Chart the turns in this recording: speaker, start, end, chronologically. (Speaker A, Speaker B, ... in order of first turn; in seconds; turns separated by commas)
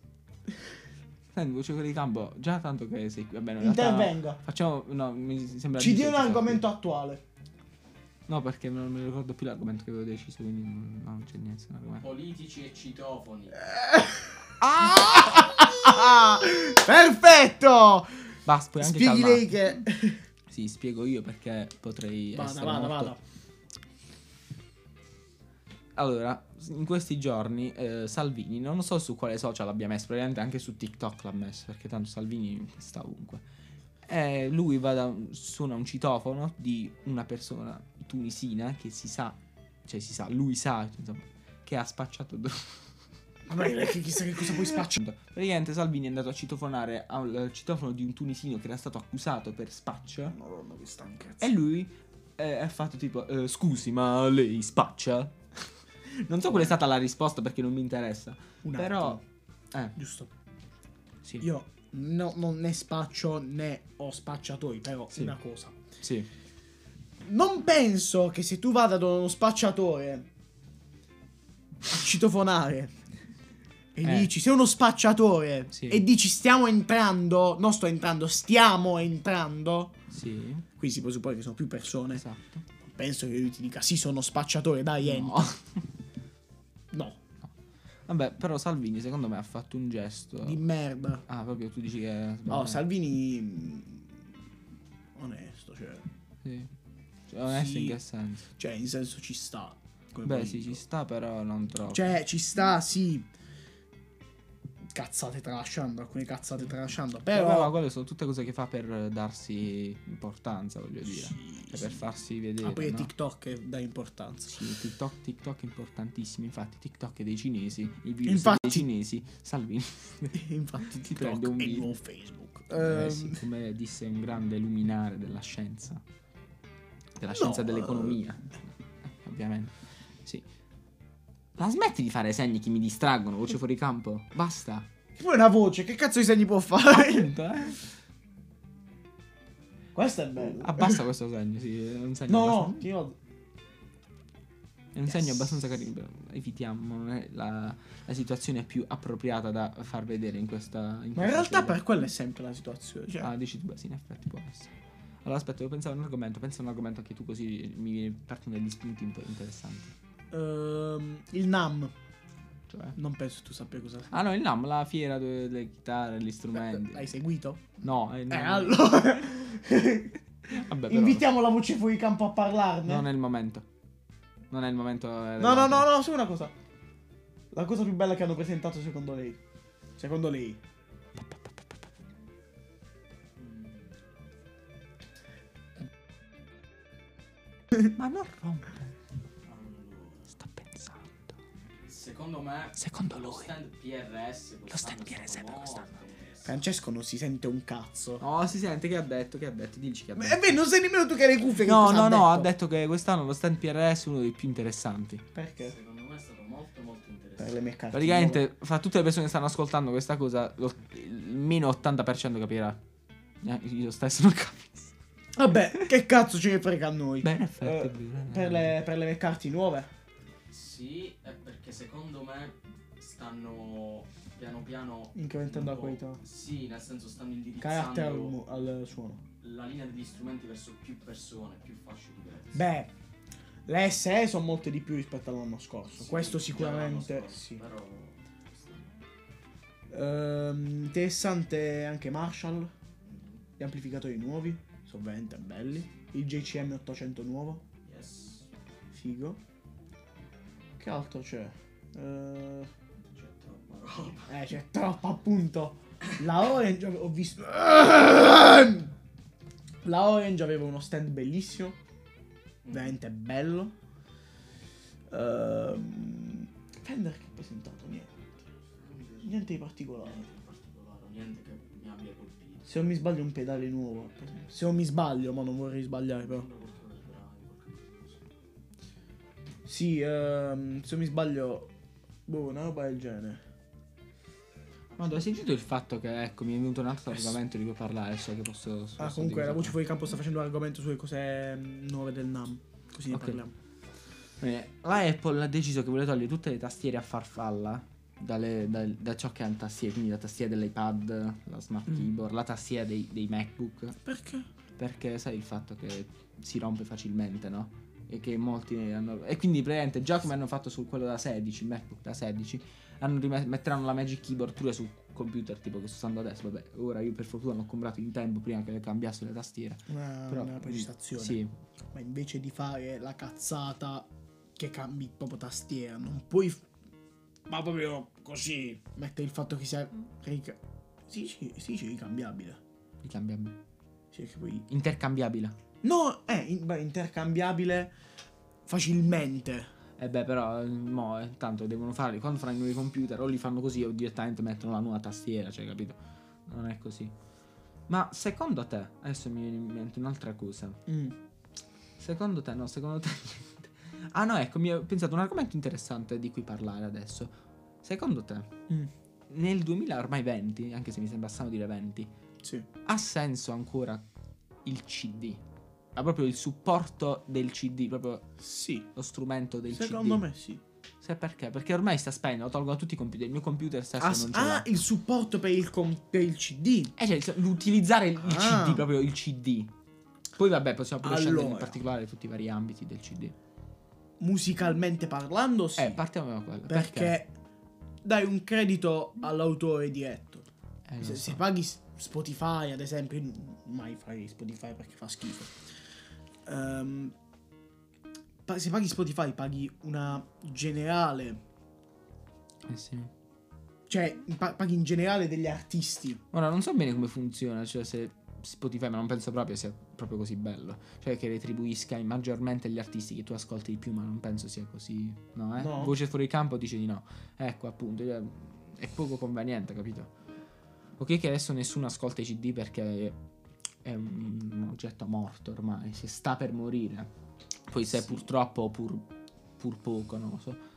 Speaker A: 1.3-6.6, Speaker B: 3.6-4.4, Speaker B: 5.8-7.2, Speaker A: 8.3-12.1, Speaker C: 12.0-13.7, Speaker B: 13.7-20.2, Speaker A: 14.6-15.7, Speaker A: 18.4-19.5, Speaker A: 20.5-23.1, Speaker B: 22.3-23.2, Speaker A: 25.9-33.4, Speaker A: 34.0-42.9, Speaker B: 43.5-45.0, Speaker A: 44.5-50.4, Speaker B: 50.3-51.5, Speaker A: 51.4-59.2, Speaker B: 56.5-56.7, Speaker B: 58.6-59.2, Speaker B: 60.0-60.3, Speaker B: 61.4-65.8, Speaker A: 66.0-66.3, Speaker B: 67.2-70.3, Speaker B: 71.9-73.0, Speaker B: 73.9-79.9, Speaker A: 74.0-74.3, Speaker A: 75.7-76.0, Speaker A: 80.1-80.7, Speaker B: 80.8-82.2, Speaker A: 82.2-82.6, Speaker B: 82.8-85.5, Speaker A: 85.0-85.8, Speaker B: 86.9-87.2, Speaker A: 88.1-90.6, Speaker B: 90.4-91.2, Speaker A: 91.3-92.8, Speaker B: 92.5-94.2, Speaker B: 95.1-96.0, Speaker A: 96.4-96.7, Speaker A: 97.3-98.5, Speaker B: 97.5-98.0, Speaker B: 98.5-100.8, Speaker A: 100.2-102.0, Speaker B: 101.9-103.3, Speaker B: 104.9-107.7, Speaker A: 107.3-113.1, Speaker B: 111.1-111.9, Speaker B: 112.6-114.5, Speaker A: 114.5-121.9, Speaker B: 118.2-118.9, Speaker B: 120.3-123.4, Speaker A: 122.7-126.0, Speaker A: 127.2-130.4, Speaker B: 127.3-128.2, Speaker A: 131.6-134.9, Speaker B: 135.2-137.3, Speaker A: 136.9-137.9, Speaker B: 139.9-141.0, Speaker A: 140.4-142.9, Speaker B: 142.3-143.2, Speaker A: 144.9-151.8, Speaker B: 151.2-153.3, Speaker A: 153.2-154.7, Speaker A: 155.2-159.9, Speaker B: 160.3-161.9, Speaker A: 162.7-162.9, Speaker B: 162.9-164.1, Speaker A: 164.1-167.1, Speaker B: 166.5-167.7, Speaker A: 167.8-169.2, Speaker B: 168.3-170.2, Speaker A: 170.5-171.2, Speaker B: 170.9-173.1, Speaker A: 172.8-173.7, Speaker A: 174.5-175.9, Speaker B: 175.4-176.5, Speaker B: 177.5-179.4, Speaker B: 180.0-180.6, Speaker C: 183.3-184.0, Speaker A: 187.9-188.9, Speaker C: 189.4-190.3, Speaker A: 190.3-191.3, Speaker C: 191.9-196.6, Speaker A: 192.8-193.5, Speaker A: 194.7-195.9, Speaker B: 196.4-198.2, Speaker A: 198.2-200.6, Speaker B: 200.1-202.5, Speaker A: 201.6-205.2, Speaker B: 205.3-205.7, Speaker C: 205.6-207.6, Speaker B: 207.4-208.4, Speaker A: 207.9-212.8, Speaker A: 213.4-214.9, Speaker B: 215.3-219.9, Speaker A: 217.2-218.7, Speaker C: 220.5-228.4, Speaker B: 225.1-226.2, Speaker B: 227.6-229.2, Speaker C: 229.4-232.6, Speaker B: 232.5-232.9, Speaker B: 233.7-237.6, Speaker C: 236.0-238.9, Speaker B: 239.9-242.7, Speaker C: 243.0-243.4, Speaker B: 243.6-247.6, Speaker C: 247.8-248.5, Speaker B: 248.9-249.4, Speaker B: 250.8-252.7, Speaker C: 253.0-254.3, Speaker B: 254.3-258.9, Speaker B: 259.8-261.8, Speaker C: 262.6-262.9, Speaker B: 262.7-263.7, Speaker B: 265.1-268.4, Speaker C: 268.8-269.4, Speaker B: 269.2-270.2, Speaker C: 270.0-272.7, Speaker B: 272.7-276.5, Speaker C: 276.2-278.3, Speaker B: 279.6-281.7, Speaker B: 282.3-283.4, Speaker A: 285.0-289.8, Speaker B: 289.0-293.5, Speaker A: 293.1-293.4, Speaker A: 294.4-304.0, Speaker B: 304.0-304.4, Speaker A: 304.8-321.5, Speaker B: 319.9-321.4, Speaker B: 321.9-326.7, Speaker B: 327.5-332.6, Speaker A: 333.0-333.6, Speaker B: 334.1-334.6, Speaker A: 334.7-335.6, Speaker B: 335.8-337.9, Speaker B: 338.7-339.7, Speaker A: 340.0-347.1, Speaker A: 347.9-350.8, Speaker B: 350.9-351.1, Speaker A: 352.0-358.5, Speaker A: 359.3-362.1, Speaker B: 362.4-362.7, Speaker A: 362.8-364.0, Speaker A: 364.6-365.4, Speaker A: 365.9-368.3, Speaker B: 368.4-368.9, Speaker A: 368.9-370.3, Speaker B: 369.7-370.6, Speaker A: 371.0-374.7, Speaker B: 374.0-376.9, Speaker A: 377.0-379.7, Speaker B: 378.2-378.9, Speaker A: 380.4-383.3, Speaker B: 381.0-381.8, Speaker B: 384.2-386.0, Speaker A: 385.8-387.2, Speaker B: 386.7-387.3, Speaker B: 388.0-390.5, Speaker A: 390.9-391.4, Speaker B: 391.0-395.6, Speaker B: 396.4-397.1, Speaker B: 398.4-401.4, Speaker A: 402.6-403.1, Speaker B: 403.9-406.2, Speaker A: 406.3-420.1, Speaker B: 415.6-415.9, Speaker A: 421.0-423.2, Speaker A: 423.8-427.1, Speaker A: 427.7-429.1, Speaker A: 429.6-430.6